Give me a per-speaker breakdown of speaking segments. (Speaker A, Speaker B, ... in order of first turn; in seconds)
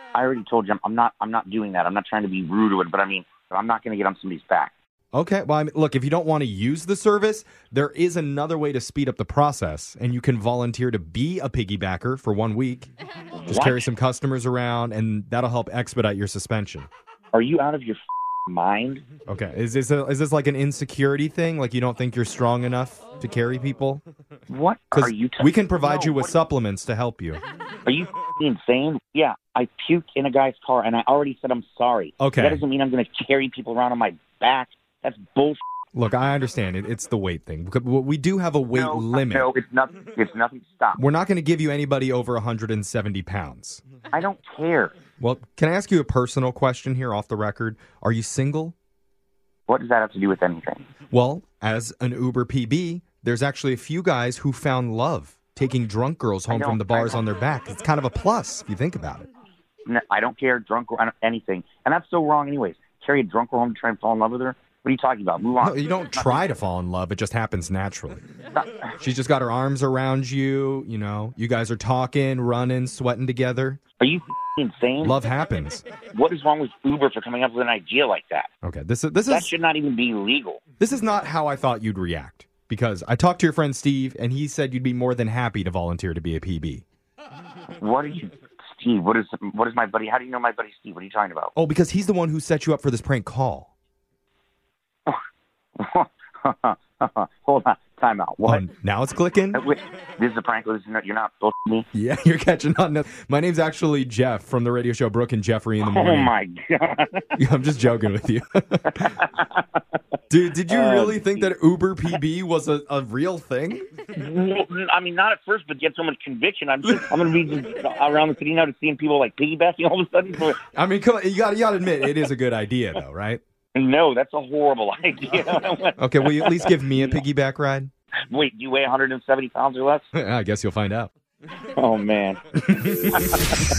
Speaker A: 0.1-4.7, 13.3-13.8, 17.3-19.0, 24.5-26.4, 27.8-35.6, 38.7-41.0, 44.1-44.9, 49.7-50.9, 56.5-57.2, 59.9-66.2, 68.5-68.8, 74.0-75.2, 76.1-78.5, 79.3-80.6, 87.7-91.5, 95.8-98.6, 99.5-101.9, 105.8-107.3, 109.0-109.6, 110.7-111.5, 114.1-120.6, 123.7-127.2, 128.3-130.1, 131.7-132.4, 133.0-133.5
Speaker B: 5.1-12.9, 13.5-16.9, 19.3-24.0, 24.9-27.4, 32.2-32.6, 35.9-39.5, 41.0-43.8, 45.2-48.8, 51.1-59.2, 65.6-68.2, 69.0-73.8, 75.0-75.8, 78.6-79.5, 80.8-86.8, 91.5-93.7, 98.4-99.6, 101.9-106.3, 107.4-109.1, 110.3-113.9, 120.7-123.4, 126.0-127.9, 130.1-131.1, 132.6-133.3